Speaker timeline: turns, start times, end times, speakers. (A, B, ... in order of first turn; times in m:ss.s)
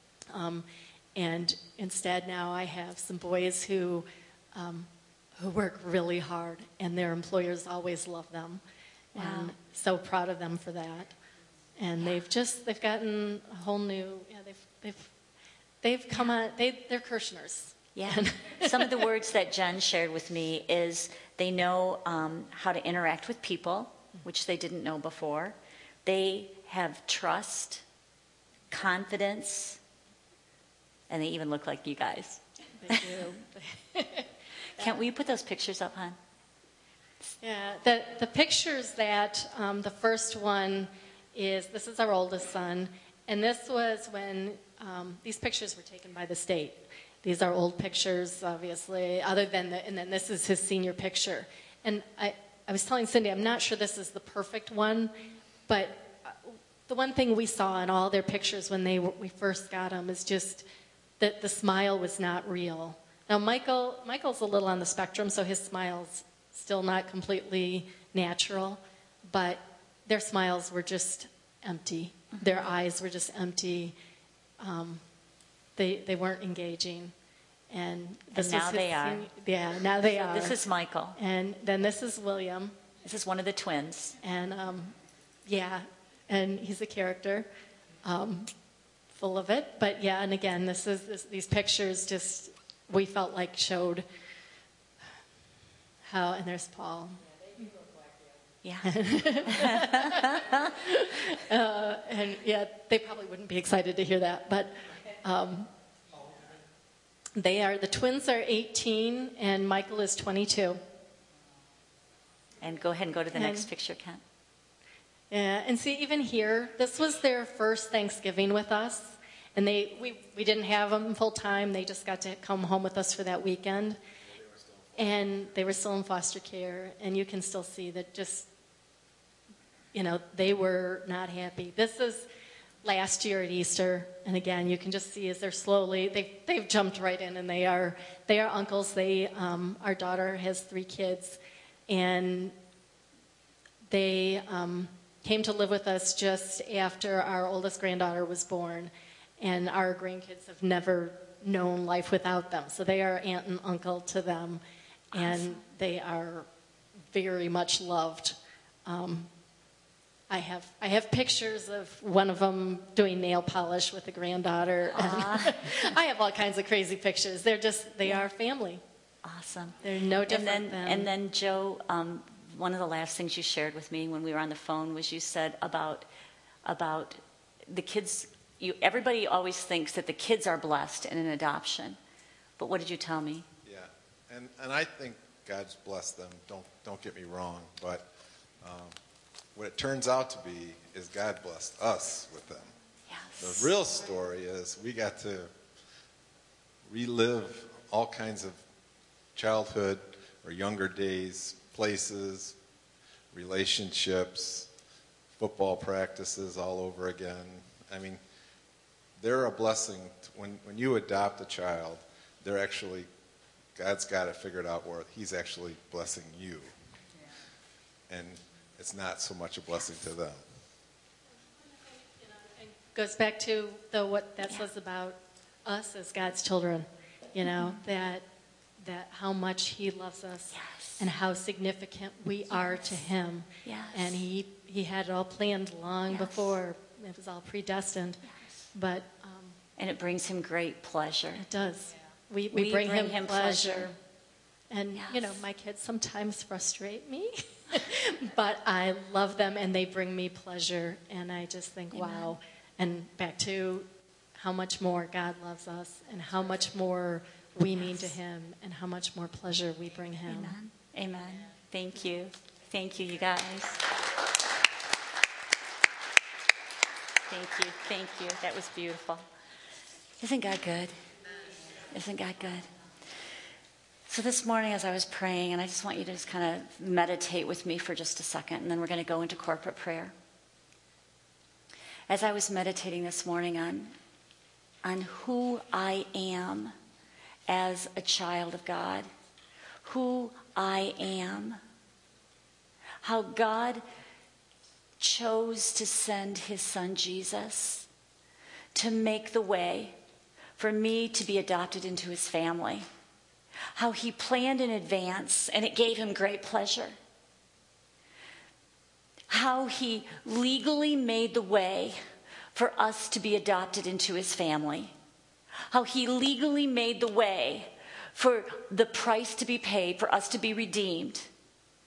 0:00.3-0:08.6 A
0:09.1-0:11.1 A
0:09.2-0:09.5 B
0:11.8-0:15.1 A
0:15.8-0:19.1 A
0:17.9-0:27.8 B
0:28.7-0:29.8 B
0:31.1-0:33.1 B
0:32.8-0:35.0 A
0:34.8-0:36.2 B
0:37.4-0:55.1 A
0:55.7-1:00.6 A
1:01.2-1:13.9 A
1:14.6-1:15.0 A
1:15.8-1:17.1 A
1:17.7-1:20.6 A
1:18.3-1:19.3 B
1:20.0-1:21.2 B
1:21.2-1:22.8 A
1:23.0-1:24.2 B
1:24.2-1:27.5 A
1:28.0-1:28.5 A
1:29.1-1:34.0 A
1:36.0-1:37.7 A
1:38.6-1:40.7 B
1:38.8-1:45.7 A
1:47.4-1:50.8 A
1:52.6-1:54.2 B
1:53.3-1:53.7 A
1:55.3-2:04.0 A
2:04.9-2:08.5 A
2:09.9-2:12.3 A
2:12.8-2:22.5 A
2:23.9-2:34.6 A
2:35.1-2:35.6 B
2:35.1-2:36.5 A
2:37.1-2:39.3 A
2:40.3-2:48.8 A
2:44.9-2:45.7 B
2:49.2-2:56.1 B
2:49.8-2:51.1 A
2:56.6-3:02.0 B
3:02.6-3:03.4 B
3:03.6-3:08.1 C
3:08.6-3:08.9 C
3:09.5-3:12.7 C
3:13.1-3:13.7 B
3:13.4-3:15.5 C
3:16.9-3:18.6 C
3:19.3-3:22.6 C
3:23.3-3:24.7 C
3:25.4-3:28.2 C
3:29.2-3:33.1 C
3:33.7-3:36.7 C
3:38.1-3:40.4 C
3:42.0-3:48.3 A
3:47.5-3:47.8 B
3:48.8-3:58.2 A
3:50.5-3:51.0 B
3:53.6-3:54.2 B
3:56.1-3:56.6 B
3:58.3-3:58.7 B
3:58.7-3:59.6 A
3:59.8-4:01.4 B
4:01.4-4:04.0 A
4:02.5-4:03.9 B
4:04.7-4:20.5 A
4:04.9-4:05.4 B
4:11.9-4:12.3 B
4:17.7-4:18.1 B
4:20.3-4:23.9 B
4:27.2-4:29.2 B
4:30.2-4:30.9 B
4:31.9-4:32.7 B
4:34.1-4:40.1 B
4:42.1-4:43.9 B
4:44.8-4:46.7 B
4:47.5-4:49.1 B
4:49.8-4:51.6 B
4:53.0-4:53.8 B
4:55.0-4:57.9 B
4:58.7-5:00.0 B
5:00.6-5:02.8 B
5:03.7-5:07.0 B
5:09.3-5:12.0 B
5:12.5-5:14.9 B
5:15.7-5:21.3 B